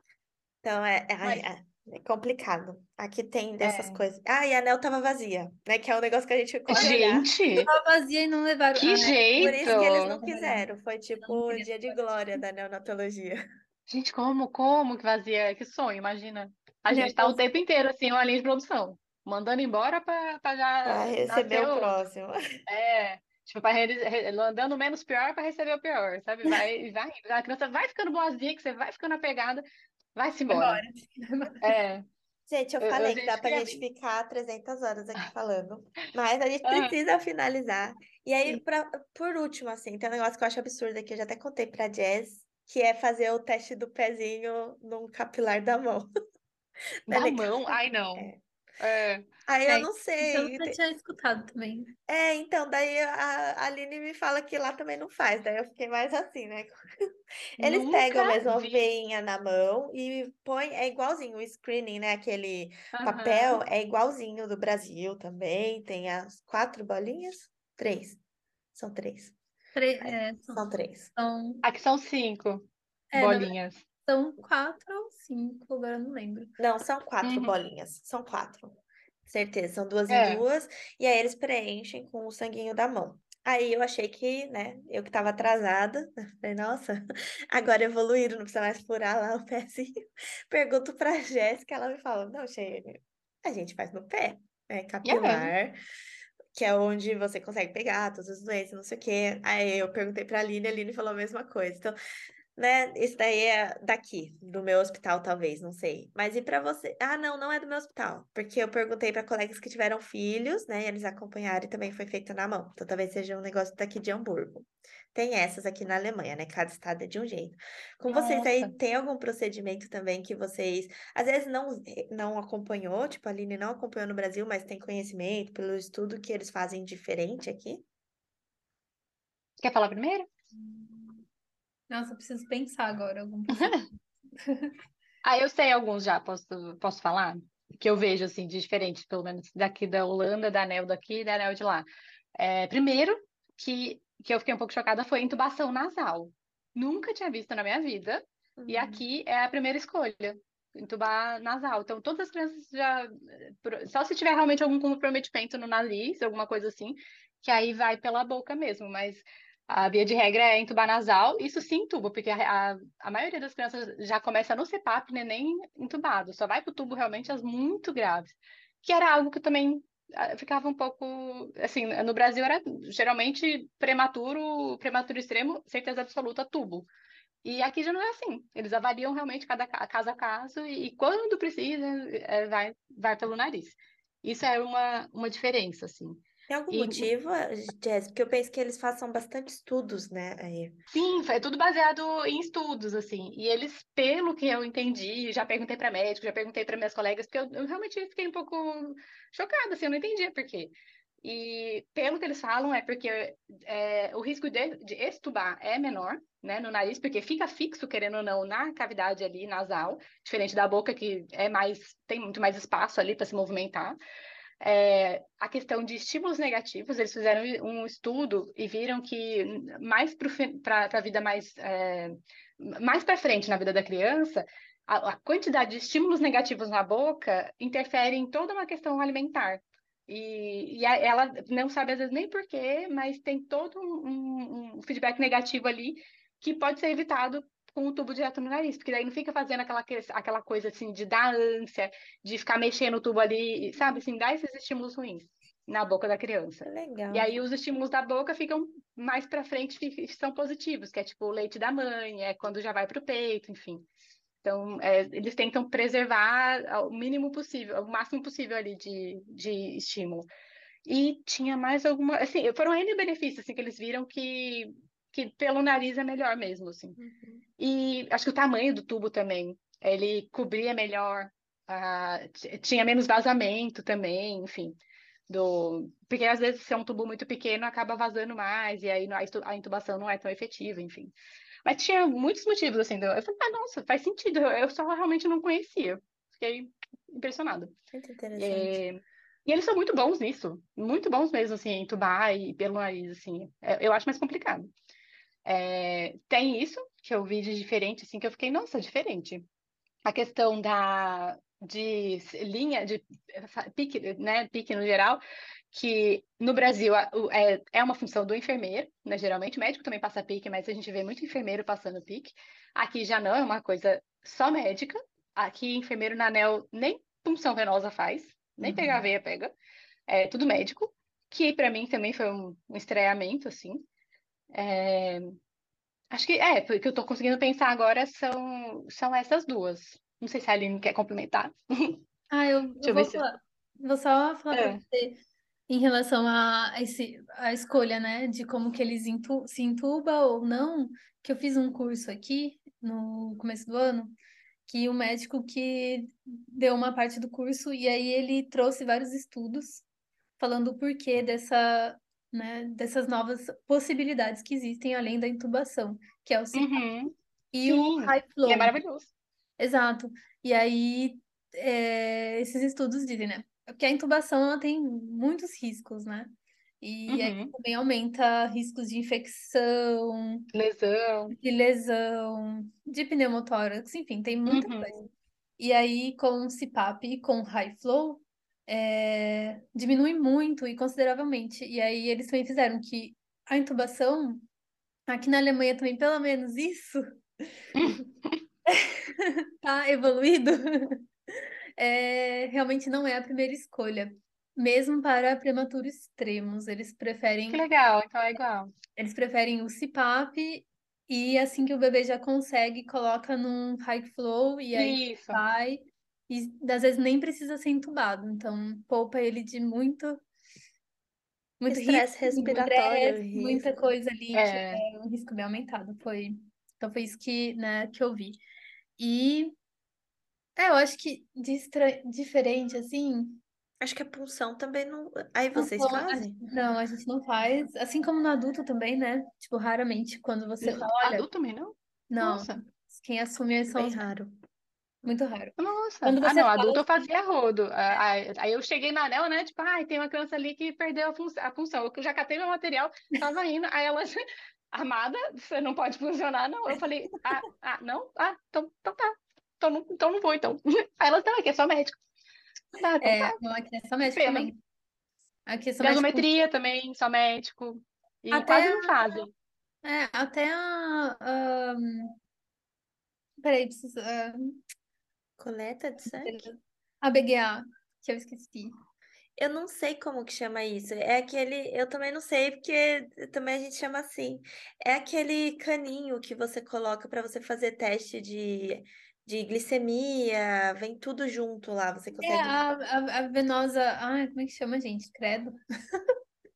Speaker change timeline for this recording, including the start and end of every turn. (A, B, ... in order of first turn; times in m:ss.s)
0:00.6-0:07.3 A
0:03.6-0:04.0 B
0:06.7-0:07.7 B
0:07.6-0:10.6 C
0:08.8-0:10.2 B
0:09.4-0:13.4 A
0:11.2-0:12.0 C
0:13.9-0:22.0 B
0:16.9-0:17.4 C
0:20.8-0:22.4 A
0:22.7-0:29.6 B
0:30.2-0:30.8 B
0:30.5-0:31.7 C
0:31.6-0:32.0 B
0:32.5-0:46.1 A
0:32.8-0:33.8 B
0:36.6-0:36.9 B
0:47.1-0:47.5 A
0:47.1-0:49.2 B
0:49.5-0:50.8 A
0:49.7-0:51.9 C
0:52.1-0:56.8 A
0:57.6-1:08.2 A
0:57.6-0:58.8 B
1:02.9-1:03.6 B
1:08.8-1:09.4 A
1:09.8-1:11.6 C
1:10.0-1:11.1 A
1:11.6-1:13.8 B
1:13.1-1:16.5 C
1:16.6-1:35.8 A
1:17.2-1:17.6 B
1:20.1-1:20.4 B
1:35.0-1:35.5 B
1:36.6-1:42.0 A
1:42.6-2:07.8 A
1:58.1-1:58.7 B
2:09.6-2:10.3 B
2:10.5-2:11.2 C
2:11.9-2:13.9 C
2:13.5-2:13.8 B
2:14.4-2:14.7 C
2:15.2-2:21.9 B
2:22.4-2:56.9 B
2:28.6-2:29.0 A
2:57.4-3:07.1 B
3:06.5-3:10.8 A
3:10.9-3:34.0 B
3:34.6-4:13.9 B
4:06.7-4:07.3 A
4:14.4-4:20.3 B
4:20.9-4:27.0 B
4:27.0-4:27.4 A
4:27.6-4:34.8 B
4:35.3-4:41.1 B
4:41.6-4:47.7 B
4:47.9-4:48.8 A
4:48.4-4:54.7 B
4:55.4-4:59.5 B
5:00.1-5:05.2 B
5:05.7-5:19.5 B
5:18.6-5:19.1 A
5:20.1-5:23.8 B
5:24.5-5:25.4 B
5:26.1-5:32.0 B
5:32.3-5:44.2 C
5:32.8-5:33.2 B
5:34.5-5:34.8 B
5:44.7-5:49.8 C
5:50.4-5:56.9 C
5:56.5-5:57.1 B
5:57.5-5:58.8 C
5:57.7-5:59.1 B
5:59.6-6:10.5 C
6:07.1-6:07.5 B
6:10.5-6:11.4 B
6:11.3-6:24.5 C
6:14.5-6:15.0 B
6:25.1-6:27.1 C
6:27.8-6:28.4 B
6:28.7-6:31.0 C
6:31.8-6:37.6 C
6:37.5-6:38.7 B
6:39.0-6:50.2 C
6:44.7-6:45.4 B
6:51.6-6:58.4 C
6:51.7-6:53.7 A
6:54.3-6:54.8 B
6:59.0-6:59.5 C
7:00.6-7:03.4 C
7:03.8-7:06.4 A
7:05.6-7:11.3 C
7:10.6-7:12.5 B
7:12.1-7:14.0 C
7:13.8-7:14.4 A
7:15.0-7:17.1 C
7:15.6-7:24.2 B
7:24.7-7:32.0 B
7:32.8-7:33.4 B
7:33.0-7:34.6 C
7:34.1-7:34.5 B
7:35.5-7:36.3 C
7:35.8-7:39.3 B
7:38.3-7:39.0 C
7:39.8-7:42.2 C
7:43.4-7:44.6 C
7:45.4-7:46.5 A
7:46.0-7:48.8 C
7:49.4-8:02.6 A
8:02.2-8:06.0 C